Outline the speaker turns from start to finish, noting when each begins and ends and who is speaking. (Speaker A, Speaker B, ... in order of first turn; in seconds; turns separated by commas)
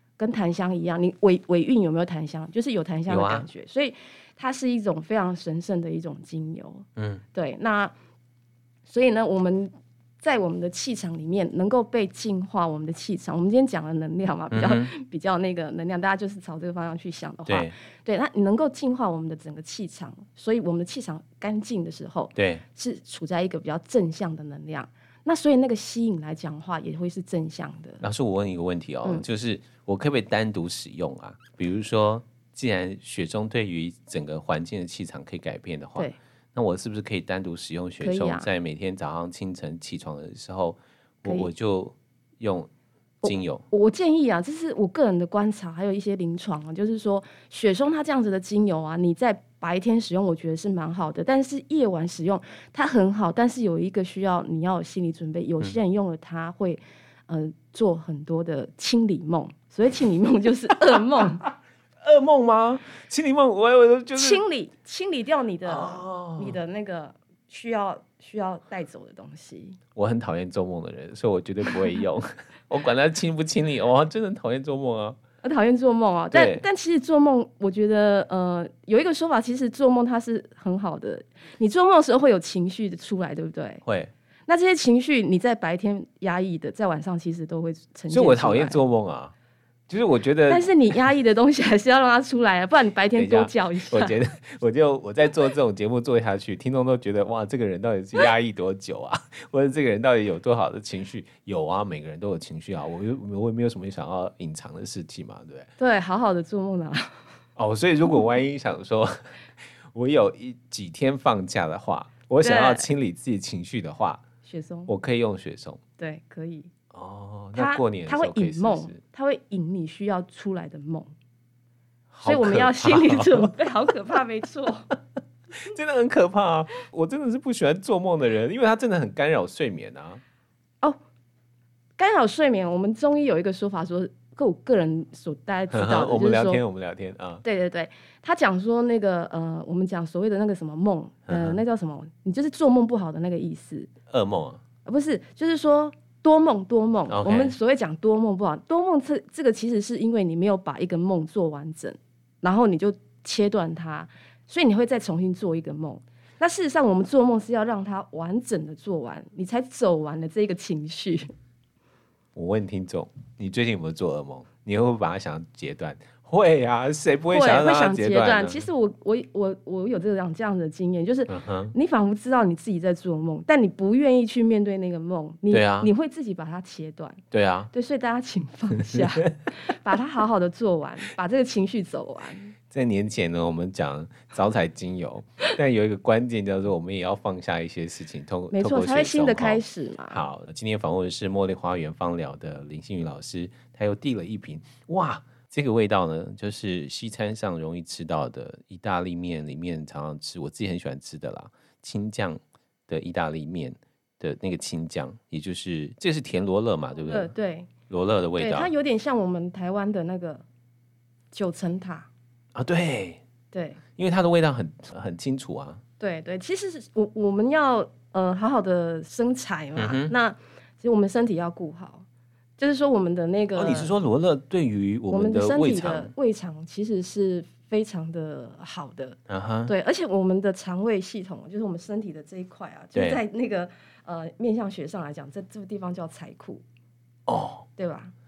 Speaker A: 0.2-7.9, Speaker B: 3.1-3.5, Speaker B: 7.0-7.2, Speaker A: 8.9-28.0, Speaker B: 14.5-14.9, Speaker B: 17.5-17.7, Speaker B: 22.4-22.6, Speaker B: 28.0-42.7, Speaker A: 38.0-38.5, Speaker A: 41.2-41.5, Speaker A: 43.2-61.4, Speaker B: 43.2-43.6, Speaker B: 62.0-64.4, Speaker A: 64.2-69.8, Speaker B: 65.7-66.6, Speaker B: 69.9-75.2, Speaker A: 75.4-83.8, Speaker B: 76.3-76.6, Speaker B: 83.8-84.1, Speaker A: 84.5-88.8, Speaker B: 88.1-89.3, Speaker B: 89.9-90.7, Speaker A: 90.5-94.2, Speaker B: 93.1-105.7, Speaker A: 105.8-107.2, Speaker B: 107.5-109.2, Speaker B: 109.8-114.2, Speaker A: 112.4-112.9, Speaker A: 114.4-114.9, Speaker B: 114.9-115.8, Speaker A: 116.0-116.7, Speaker B: 116.9-119.0, Speaker A: 117.5-121.1, Speaker B: 122.1-123.5, Speaker A: 122.2-124.9, Speaker B: 125.6-130.2, Speaker A: 132.0-136.6, Speaker B: 135.7-137.4, Speaker A: 137.4-143.9, Speaker B: 141.3-141.6, Speaker B: 144.1-144.6, Speaker A: 144.8-161.3, Speaker B: 147.1-147.5, Speaker B: 162.3-168.6, Speaker A: 167.3-182.5, Speaker B: 171.3-171.7, Speaker B: 175.5-175.9, Speaker B: 177.3-177.7, Speaker B: 182.7-207.3, Speaker A: 188.5-190.2, Speaker A: 207.1-207.7, Speaker B: 207.9-208.7, Speaker A: 208.4-210.4, Speaker A: 211.3-212.1, Speaker B: 212.5-213.2, Speaker A: 213.5-213.8, Speaker B: 214.0-215.8, Speaker A: 216.0-222.0, Speaker B: 219.8-220.1, Speaker A: 222.6-223.9, Speaker B: 223.6-226.1, Speaker A: 225.1-236.6, Speaker B: 229.3-229.7, Speaker B: 232.9-233.2, Speaker B: 237.3-237.7, Speaker A: 237.8-238.1